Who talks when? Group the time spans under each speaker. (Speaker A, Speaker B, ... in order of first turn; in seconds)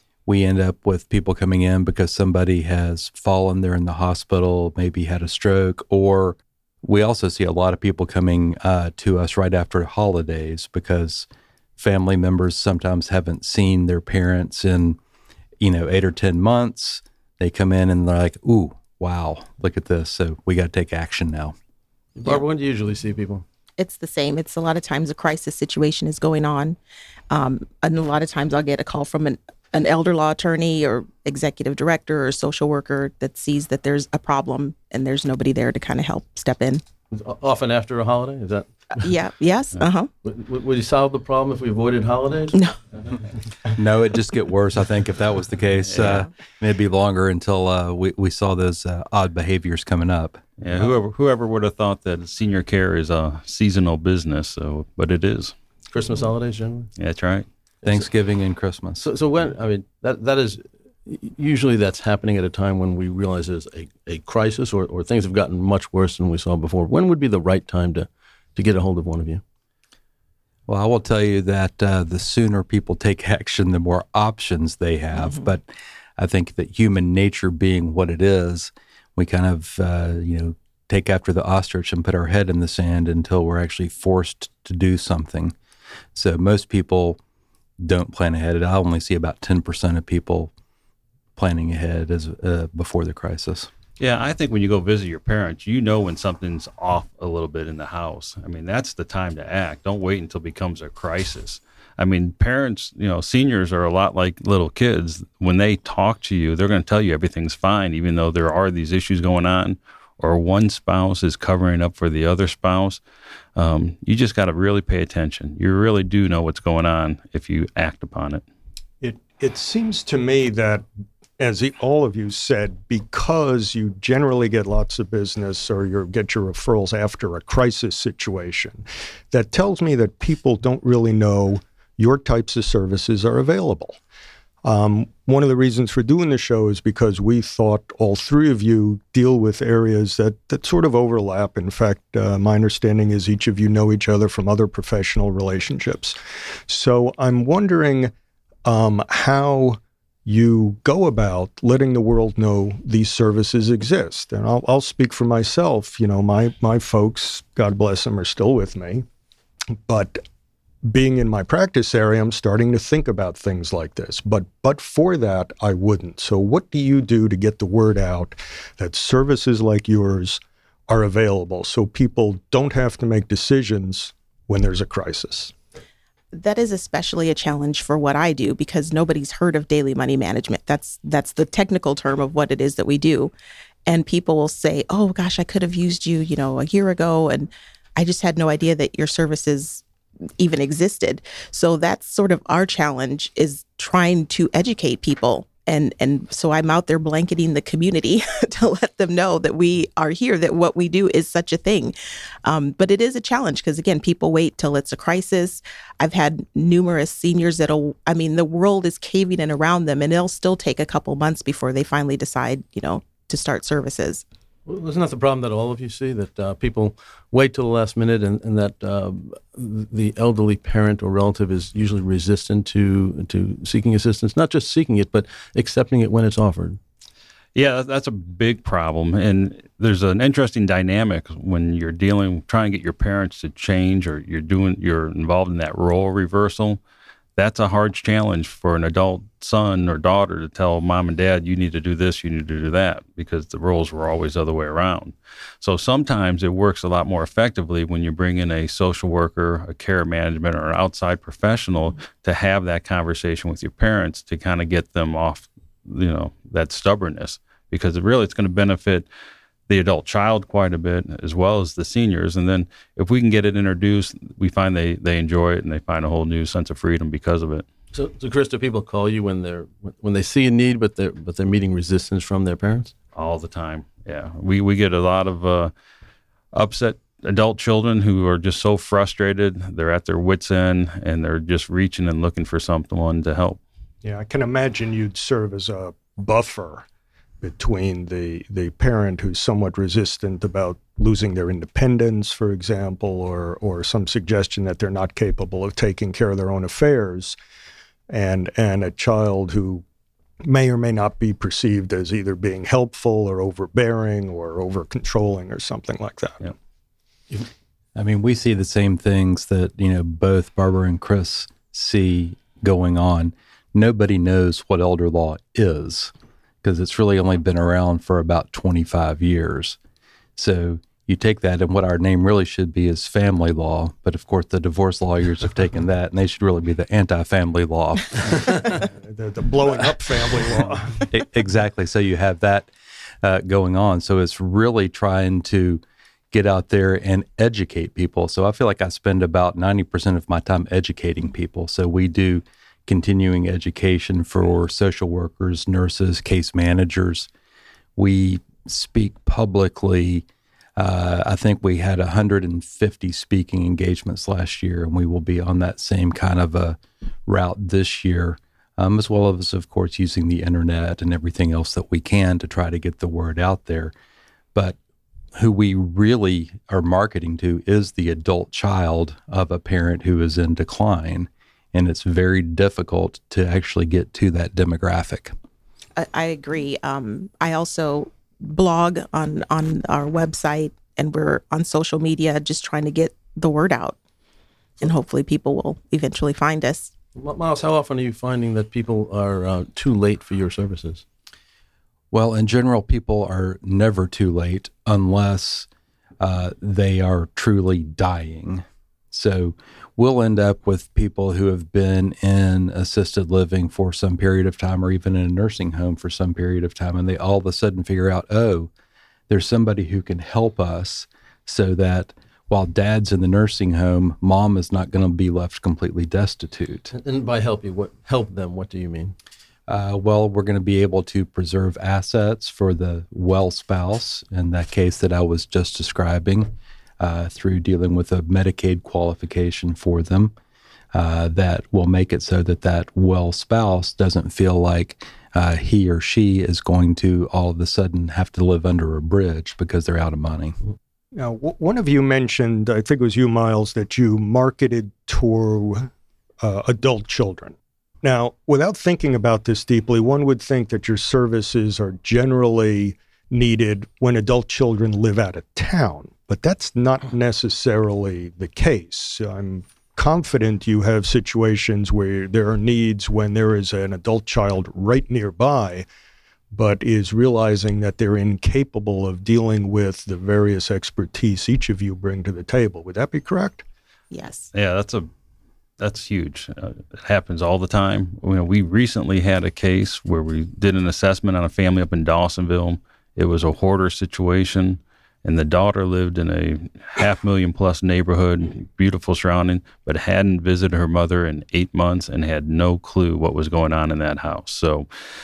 Speaker A: 0.3-15.0, 15.6-21.6, 43.8-50.4, 57.8-59.1, 70.7-75.7, 76.2-85.5, 86.2-87.2, 87.8-90.5, 91.4-93.7, 308.0-319.8, 320.4-328.6, 331.1-332.7, 333.2-347.3, 348.0-350.2, 350.8-363.9, 365.3-375.3, 392.1-395.7, 396.2-408.7, 409.3-416.9, 419.7-430.3, 430.9-440.6
Speaker B: 22.2-23.4, 37.1-39.1, 40.2-42.6, 55.9-56.9, 59.0-69.4, 214.7-226.8, 267.9-272.9, 387.1-391.0, 416.9-419.1
Speaker C: 23.8-26.8, 27.3-36.8, 39.0-40.1, 75.2-75.4, 176.3-183.3, 183.9-189.8, 190.4-201.9, 202.4-214.2, 376.0-384.0, 384.8-386.9, 474.1-474.5
Speaker D: 45.9-46.3, 50.6-55.6, 57.0-57.5, 94.0-113.0, 113.6-118.4, 227.6-236.8, 237.4-259.1, 259.7-267.7, 273.1-275.7, 276.5-283.6, 474.5-475.1, 475.8-494.9
Speaker E: 119.0-120.8, 121.4-134.0, 134.6-146.2, 146.7-148.1, 148.7-159.1, 159.9-160.2, 160.8-175.5, 284.0-286.9, 287.4-297.4, 298.1-299.8, 300.4-306.5, 328.9-331.1, 441.1-445.9, 446.4-465.9, 466.5-473.6